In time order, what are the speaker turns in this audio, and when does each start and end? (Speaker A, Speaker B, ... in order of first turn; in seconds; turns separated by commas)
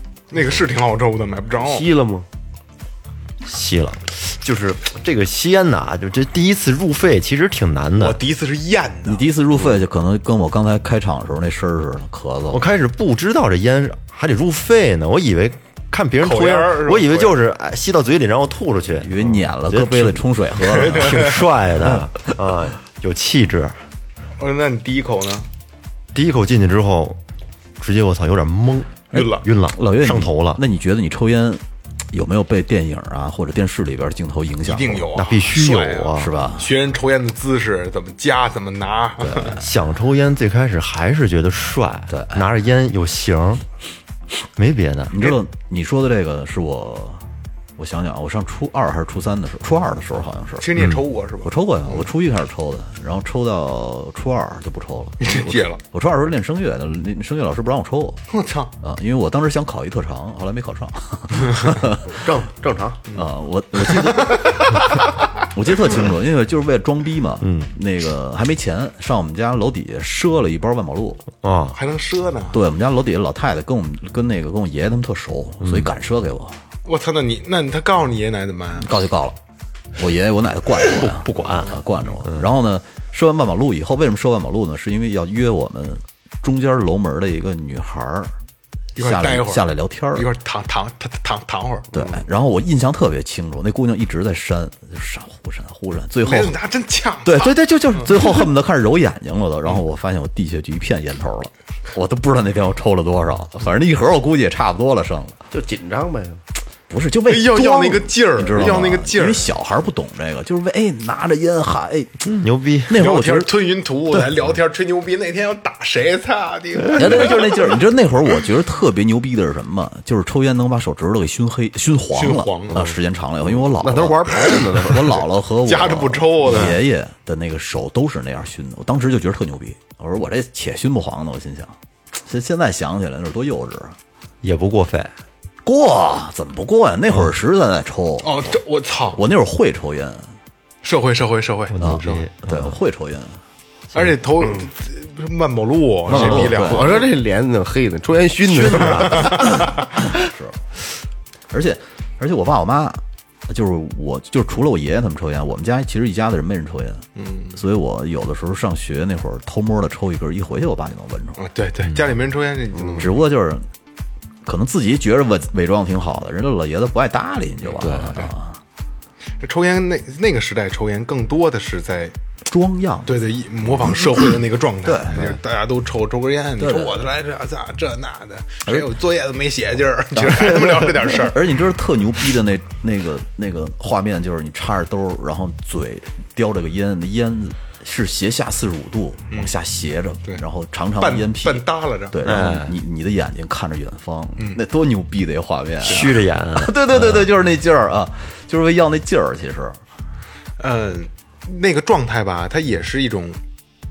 Speaker A: 0.3-1.9, Speaker B: 1.6-2.3, Speaker C: 3.4-8.2, Speaker A: 8.0-9.3, Speaker D: 9.1-12.6, Speaker C: 12.5-23.8, Speaker A: 16.2-17.4, Speaker D: 19.0-22.1, Speaker A: 20.7-21.4, Speaker A: 24.4-25.5, Speaker C: 26.1-27.2, Speaker C: 27.8-30.6, Speaker A: 29.1-29.4, Speaker D: 29.1-35.1, Speaker A: 34.6-39.6, Speaker C: 35.1-36.3, Speaker D: 36.1-36.7, Speaker C: 39.2-43.6, Speaker D: 42.1-42.4, Speaker C: 44.5-45.2, Speaker D: 45.1-47.2, Speaker D: 47.8-50.7, Speaker A: 50.6-52.1, Speaker C: 50.8-51.0, Speaker D: 51.4-58.2, Speaker A: 55.2-55.8, Speaker A: 58.3-58.7, Speaker D: 58.8-62.0, Speaker B: 62.1-63.0, Speaker D: 63.1-71.2, Speaker A: 63.8-64.6, Speaker C: 67.4-67.7, Speaker C: 71.4-71.8, Speaker A: 71.8-72.6, Speaker D: 72.5-76.6, Speaker C: 75.6-75.9, Speaker A: 76.8-78.9, Speaker D: 78.8-79.4, Speaker D: 80.0-88.3, Speaker C: 80.9-82.5, Speaker A: 89.0-92.0, Speaker D: 89.0-90.3, Speaker D: 91.9-96.5, Speaker A: 96.2-98.3, Speaker D: 97.2-105.4, Speaker B: 105.5-106.4, Speaker D: 106.9-112.2, Speaker A: 107.2-109.5, Speaker C: 112.3-113.0, Speaker D: 112.9-113.5, Speaker A: 112.9-117.7, Speaker D: 116.9-134.0, Speaker A: 122.1-122.8, Speaker B: 122.7-125.2, Speaker A: 124.5-125.1, Speaker A: 125.7-126.8, Speaker C: 134.4-135.1, Speaker D: 135.6-138.4, Speaker A: 138.2-139.2, Speaker D: 139.1-140.3, Speaker A: 140.8-142.3, Speaker C: 141.7-142.7, Speaker D: 141.8-143.4, Speaker A: 143.9-147.1, Speaker B: 146.1-149.7, Speaker D: 146.1-147.0, Speaker C: 148.5-149.3, Speaker D: 148.8-150.6, Speaker A: 149.2-149.5, Speaker D: 151.5-161.4, Speaker A: 157.2-157.6, Speaker A: 161.4-163.2, Speaker B: 162.7-163.1, Speaker D: 163.0-163.7, Speaker D: 164.4-168.6, Speaker C: 167.8-168.2, Speaker A: 169.4-172.1, Speaker D: 172.4-173.1, Speaker A: 173.1-181.4, Speaker D: 174.8-175.4, Speaker D: 176.6-177.0, Speaker D: 180.3-199.8, Speaker A: 191.0-192.2, Speaker C: 192.2-192.7, Speaker C: 195.8-197.2, Speaker A: 195.9-196.2, Speaker A: 200.6-203.4